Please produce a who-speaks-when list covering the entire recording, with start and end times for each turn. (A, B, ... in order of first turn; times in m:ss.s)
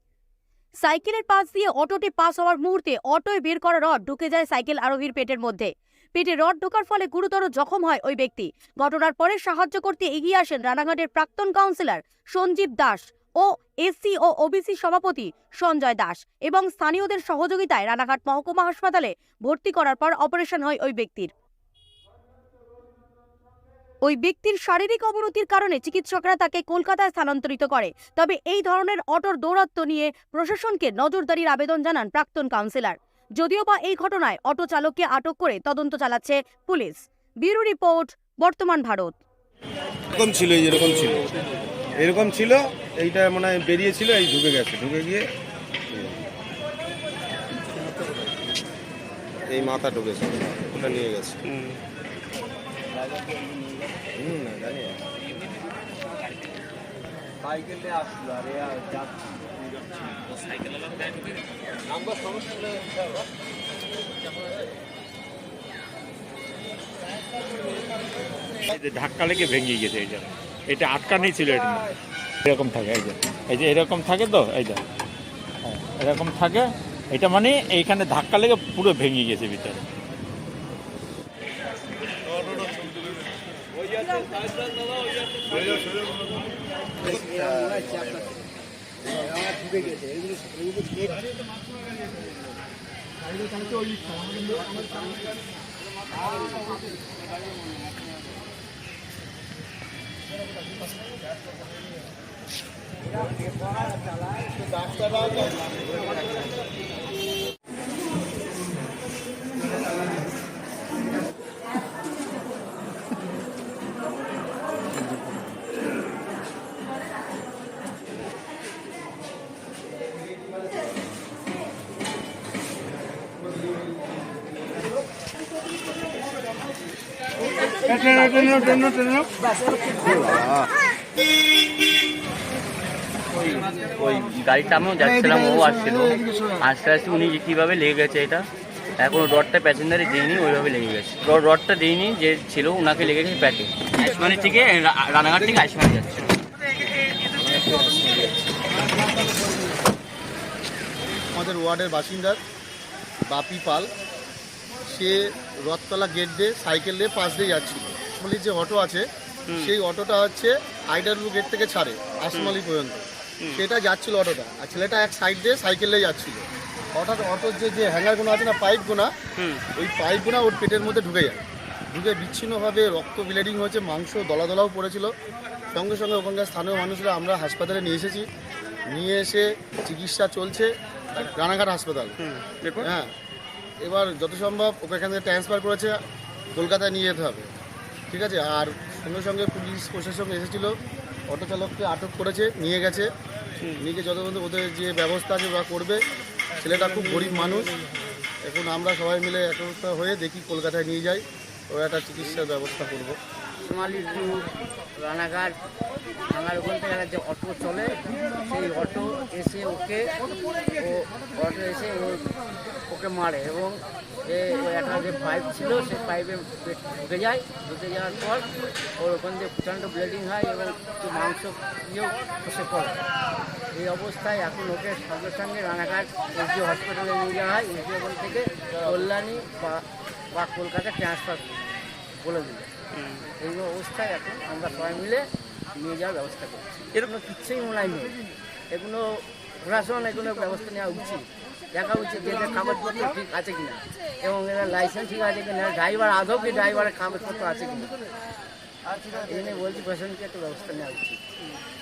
0:00.8-0:21.3 A
0:24.0-0:39.1 A
0:40.2-0:41.2 B
0:42.0-0:45.3 B
0:45.9-0:46.2 B
0:49.5-0:51.4 B
0:54.2-0:55.0 B
1:08.7-1:11.9 C
1:12.4-1:14.8 C
1:15.6-1:19.8 C
1:27.0-1:28.1 D
1:29.6-1:31.0 D
1:44.8-1:45.5 E
1:45.4-1:46.4 D
2:07.9-2:09.0 F
2:10.1-2:10.6 B
2:13.4-2:18.5 F
2:19.0-2:26.4 F
2:27.4-2:28.6 B
2:31.3-2:32.4 E
2:33.3-2:33.9 E
2:34.9-2:39.0 E
2:39.6-2:46.4 E
2:47.0-2:49.1 E
2:49.8-2:55.1 E
2:55.8-2:58.3 E
2:58.9-3:02.2 E
3:02.2-3:02.9 F
3:02.8-3:03.1 E
3:03.8-3:06.0 E
3:06.6-3:07.5 E
3:08.1-3:10.7 E
3:11.3-3:13.1 E
3:13.8-3:16.0 E
3:16.6-3:17.8 E
3:18.4-3:23.2 E
3:23.6-3:25.6 D
3:26.3-3:32.3 D
3:32.9-3:43.0 D
3:43.7-3:51.6 D
3:52.2-3:52.7 D
3:53.4-3:58.2 D
3:58.7-3:59.1 D
3:59.6-4:08.0 D
4:09.3-4:11.2 D